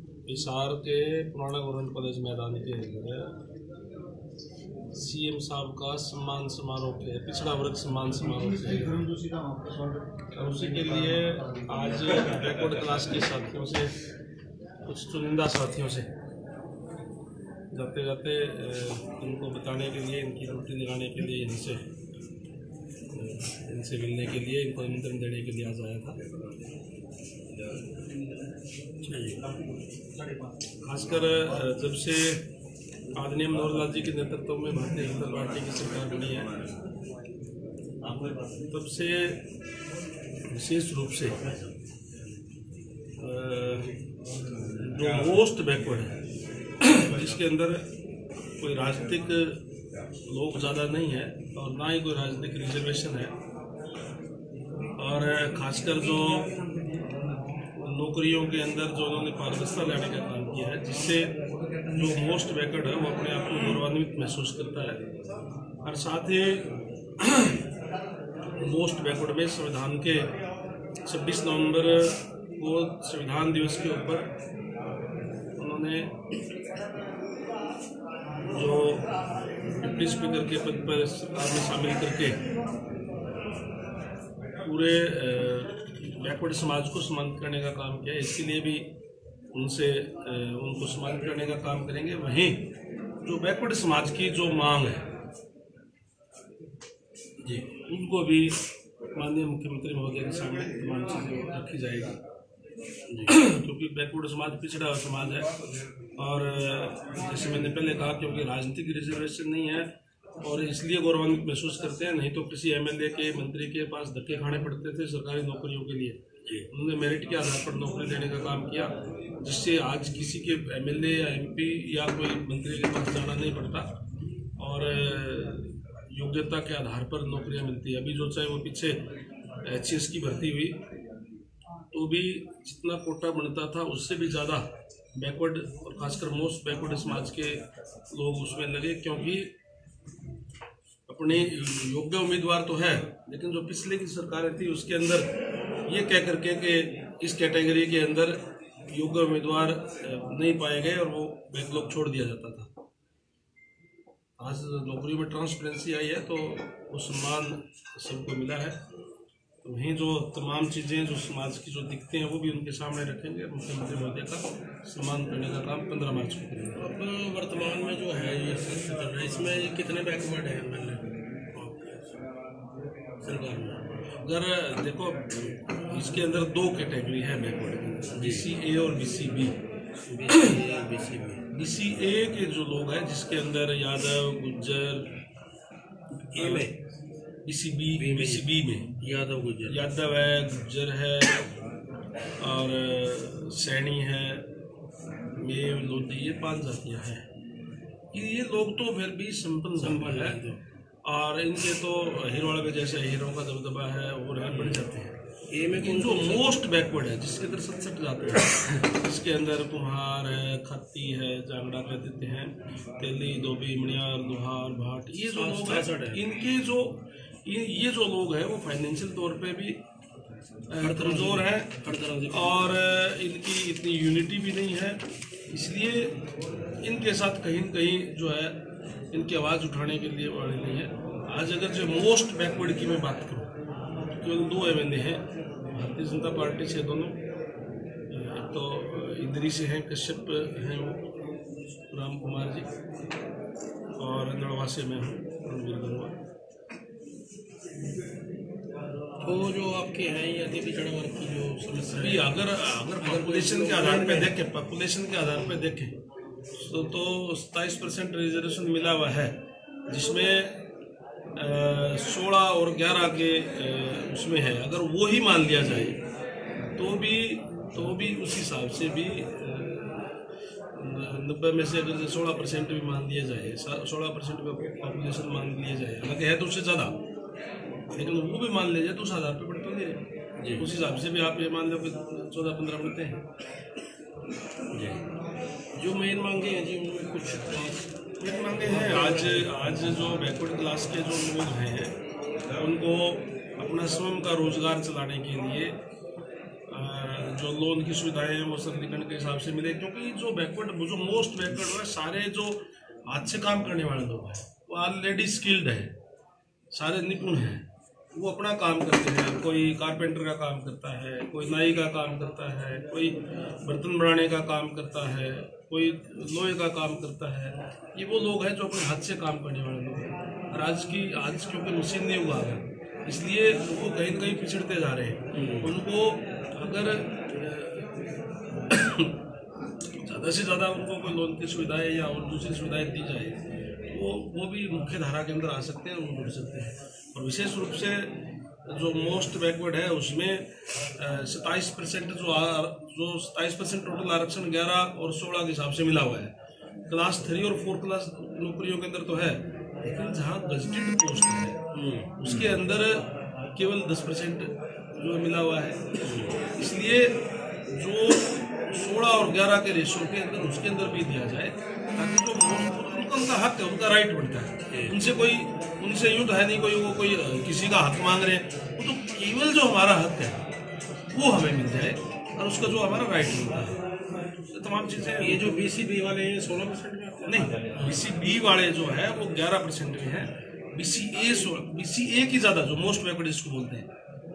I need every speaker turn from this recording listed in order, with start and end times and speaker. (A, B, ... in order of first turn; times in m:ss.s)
0:00.2-0:03.4 A
0:04.9-0:09.1 A
0:10.3-0:13.9 A
0:14.8-0:16.1 A
0:17.7-0:21.8 A
0:23.1-0:26.2 A
0:29.0-0:29.5 B
0:30.8-0:32.5 A
0:33.1-0:36.5 A
0:38.7-0:39.4 A
0:40.5-0:41.4 A
0:43.2-0:43.9 A
0:44.8-0:46.2 A
0:46.8-0:47.9 A
0:48.6-0:49.6 A
0:50.3-0:53.3 A
0:55.0-0:56.5 A
0:57.8-1:01.3 A
1:01.9-1:05.0 A
1:05.8-1:06.7 A
1:07.2-1:07.6 A
1:08.6-1:10.3 A
1:11.1-1:14.3 A
1:15.6-1:16.1 A
1:18.5-1:19.1 A
1:19.8-1:22.4 A
1:24.6-1:28.9 A
1:29.5-1:32.6 A
1:33.2-1:35.0 A
1:37.9-1:38.6 A
1:39.2-1:42.2 A
1:43.1-1:43.4 B
1:43.3-1:45.5 A
1:46.2-1:49.9 A
1:50.4-2:03.9 A
2:04.6-2:09.0 A
2:09.6-2:10.8 A
2:11.9-2:19.5 A
2:21.1-2:25.3 A
2:25.9-2:32.7 A
2:34.4-2:38.8 A
2:39.6-2:46.8 A
2:46.8-2:52.1 B
2:53.2-2:53.8 B
2:54.2-2:59.6 A
2:58.1-2:58.5 B
3:00.1-3:01.4 B
3:01.5-3:05.1 A
3:06.3-3:06.8 B
3:06.4-3:06.7 A
3:07.4-3:08.9 A
3:07.9-3:09.8 B
3:09.7-3:11.5 A
3:12.4-3:14.5 A
3:15.4-3:17.2 A
3:18.1-3:20.4 A
3:19.8-3:20.6 B
3:21.0-3:25.1 A
3:24.5-3:24.8 B
3:25.5-3:26.5 B
3:25.8-3:39.8 A
3:35.2-3:36.2 B
3:40.7-3:46.2 A
3:40.8-3:42.7 B
3:46.8-3:48.6 A
3:49.1-3:53.5 A
3:54.2-3:57.2 A
3:58.1-4:01.0 A
4:01.9-4:02.7 A
4:04.0-4:06.2 A
4:09.2-4:14.3 B
4:11.9-4:15.9 A
4:16.6-4:19.3 A
4:19.9-4:20.6 A
4:21.4-4:26.0 A
4:26.8-4:29.9 A
4:30.8-4:37.0 A
4:37.9-4:40.0 A
4:40.4-4:40.6 B
4:40.6-4:43.2 A
4:44.7-4:45.0 B
4:45.8-4:47.9 B
4:48.2-4:51.9 A
4:48.5-4:50.0 B
4:52.5-4:55.7 A
4:56.7-5:05.9 A
5:06.7-5:27.9 A
5:25.3-5:25.7 B
5:28.7-5:29.2 A
5:30.0-5:33.4 A
5:33.9-5:38.1 A
5:38.7-5:46.3 A
5:46.9-5:51.6 A
5:51.7-5:52.5 B
5:52.2-5:55.8 A
5:56.0-5:56.4 B
5:56.6-5:57.2 A
5:57.7-6:10.4 A
6:04.7-6:05.0 B
6:11.1-6:13.8 A
6:14.5-6:15.6 A
6:15.2-6:18.1 B
6:17.2-6:23.9 A